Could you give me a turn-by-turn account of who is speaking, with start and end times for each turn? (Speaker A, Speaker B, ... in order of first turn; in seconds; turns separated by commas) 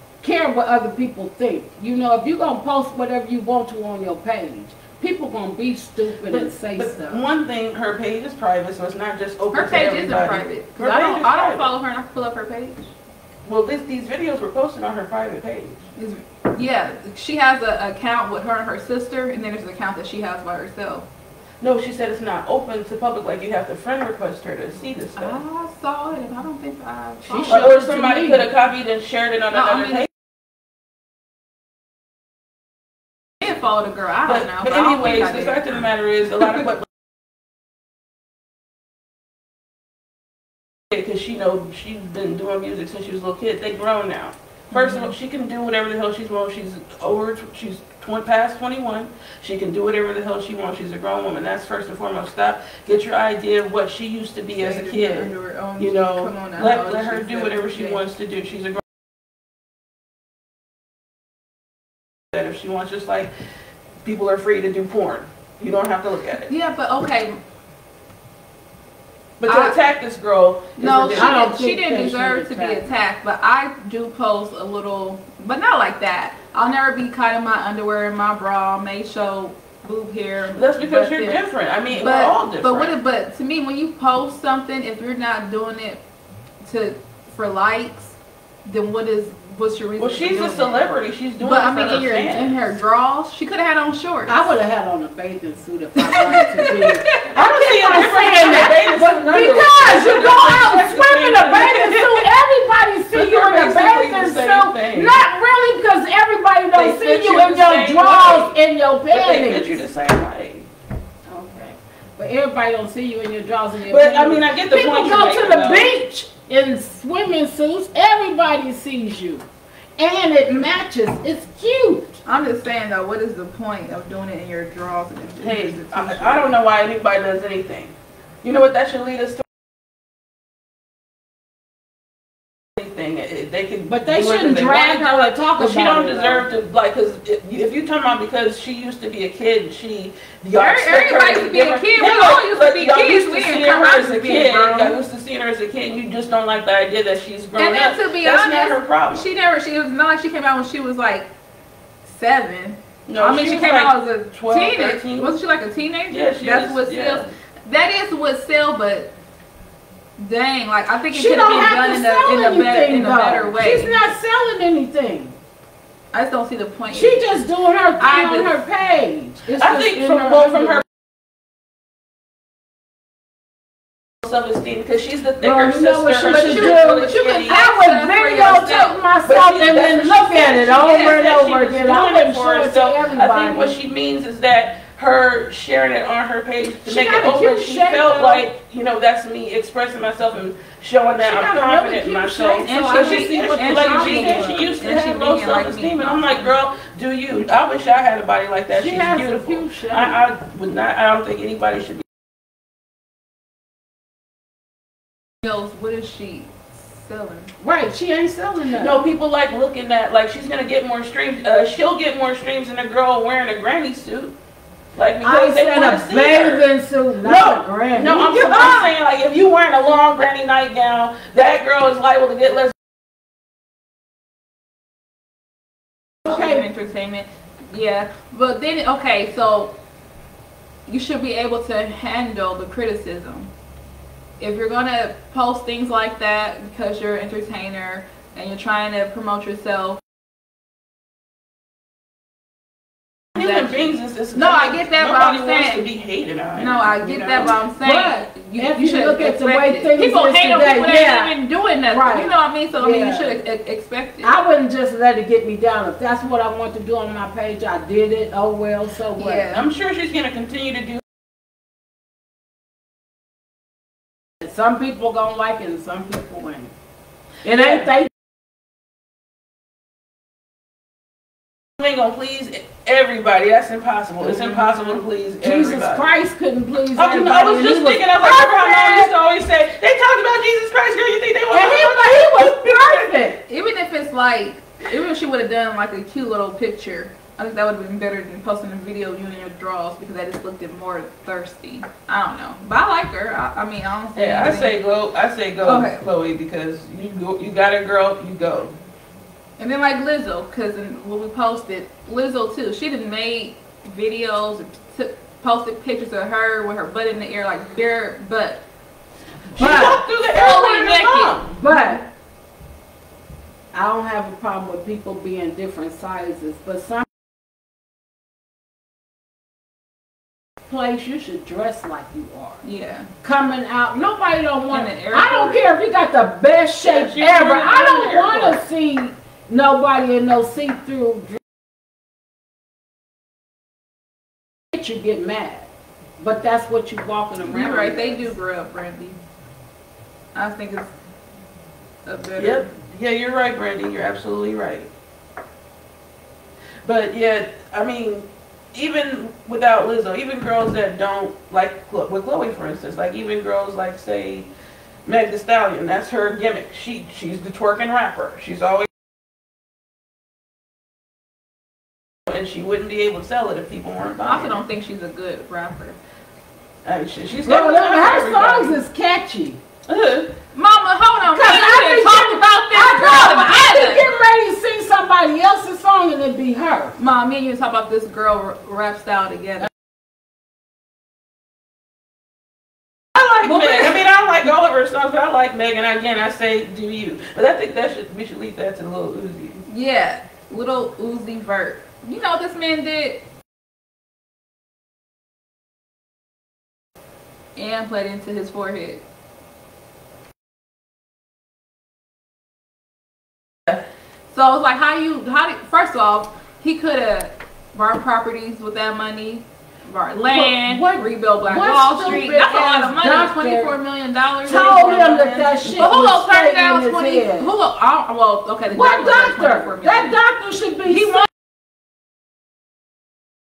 Speaker A: 0.2-7.2, Speaker B: 6.3-11.7, Speaker C: 9.5-12.9, Speaker B: 13.4-15.8, Speaker C: 15.9-21.1, Speaker B: 21.6-25.4, Speaker C: 25.1-27.8, Speaker A: 27.2-28.5, Speaker B: 27.5-30.1, Speaker C: 29.5-30.1, Speaker C: 33.4-35.9, Speaker B: 34.3-36.9, Speaker B: 40.9-58.8, Speaker C: 44.7-45.1, Speaker C: 54.5-58.0, Speaker B: 62.3-63.3, Speaker B: 64.0-66.5, Speaker C: 66.5-67.4, Speaker B: 69.4-71.5, Speaker C: 69.5-69.8, Speaker C: 70.8-81.4, Speaker A: 71.1-72.9, Speaker B: 80.5-82.9, Speaker C: 82.0-86.0, Speaker C: 86.6-90.9, Speaker B: 90.0-92.7, Speaker C: 91.4-94.5, Speaker A: 94.3-109.7, Speaker C: 96.0-97.3, Speaker B: 97.3-102.4, Speaker B: 103.1-105.2, Speaker B: 106.7-108.5, Speaker B: 109.1-110.7, Speaker A: 111.3-119.5, Speaker B: 113.8-115.9, Speaker A: 120.0-122.2, Speaker C: 122.2-126.5, Speaker B: 125.4-129.4, Speaker B: 132.8-149.3, Speaker A: 133.9-136.5, Speaker C: 140.5-144.9, Speaker C: 147.6-151.3, Speaker C: 152.0-159.1, Speaker B: 153.1-155.3, Speaker B: 156.1-157.3, Speaker C: 160.2-164.1, Speaker A: 161.1-165.4, Speaker C: 166.1-167.2, Speaker A: 166.9-170.8, Speaker C: 168.0-168.5, Speaker B: 169.6-170.8, Speaker B: 174.2-177.6, Speaker A: 175.4-183.8, Speaker C: 176.2-179.0, Speaker B: 179.2-202.0, Speaker C: 180.8-181.2, Speaker A: 186.8-188.5, Speaker A: 191.2-194.7, Speaker C: 192.6-196.5, Speaker A: 198.7-200.2, Speaker C: 205.4-207.5, Speaker A: 207.6-209.0, Speaker B: 208.8-214.3, Speaker B: 214.9-216.7, Speaker A: 215.2-218.9, Speaker B: 217.2-222.7, Speaker A: 226.2-226.7, Speaker C: 226.2-229.7, Speaker C: 230.9-233.5, Speaker C: 234.4-240.0, Speaker B: 243.3-247.5, Speaker C: 243.4-245.9, Speaker C: 246.6-254.3, Speaker A: 247.8-251.3, Speaker A: 251.9-253.4, Speaker A: 254.2-259.5, Speaker C: 259.2-259.7, Speaker B: 259.5-261.0, Speaker A: 264.4-266.7, Speaker A: 267.4-268.1, Speaker B: 271.8-276.1, Speaker A: 274.2-274.9, Speaker A: 275.4-279.1, Speaker B: 276.9-283.1, Speaker A: 281.5-283.4, Speaker C: 283.5-294.8, Speaker B: 294.1-298.7, Speaker C: 295.6-296.0, Speaker C: 299.6-308.6, Speaker A: 309.6-310.0, Speaker B: 309.6-311.6, Speaker C: 309.6-311.9, Speaker A: 311.5-312.0, Speaker A: 313.7-317.1, Speaker A: 320.6-322.6, Speaker C: 322.6-323.1, Speaker A: 323.2-331.4, Speaker C: 324.7-325.6, Speaker B: 326.8-328.6, Speaker A: 334.7-338.3, Speaker C: 337.4-339.2, Speaker C: 340.3-340.9, Speaker C: 342.1-342.7, Speaker B: 342.4-344.9, Speaker B: 346.8-354.5, Speaker B: 355.1-358.9, Speaker B: 362.2-364.6, Speaker C: 364.2-366.0, Speaker B: 366.8-368.8, Speaker A: 367.4-369.6, Speaker B: 369.9-370.3, Speaker C: 370.5-374.1, Speaker A: 371.2-377.0, Speaker C: 377.0-379.7, Speaker B: 383.1-389.6, Speaker C: 389.6-393.2, Speaker C: 397.6-399.0, Speaker C: 404.3-420.2, Speaker A: 410.3-413.7, Speaker A: 414.4-417.5, Speaker B: 414.5-415.7, Speaker A: 418.7-421.3, Speaker C: 420.9-421.2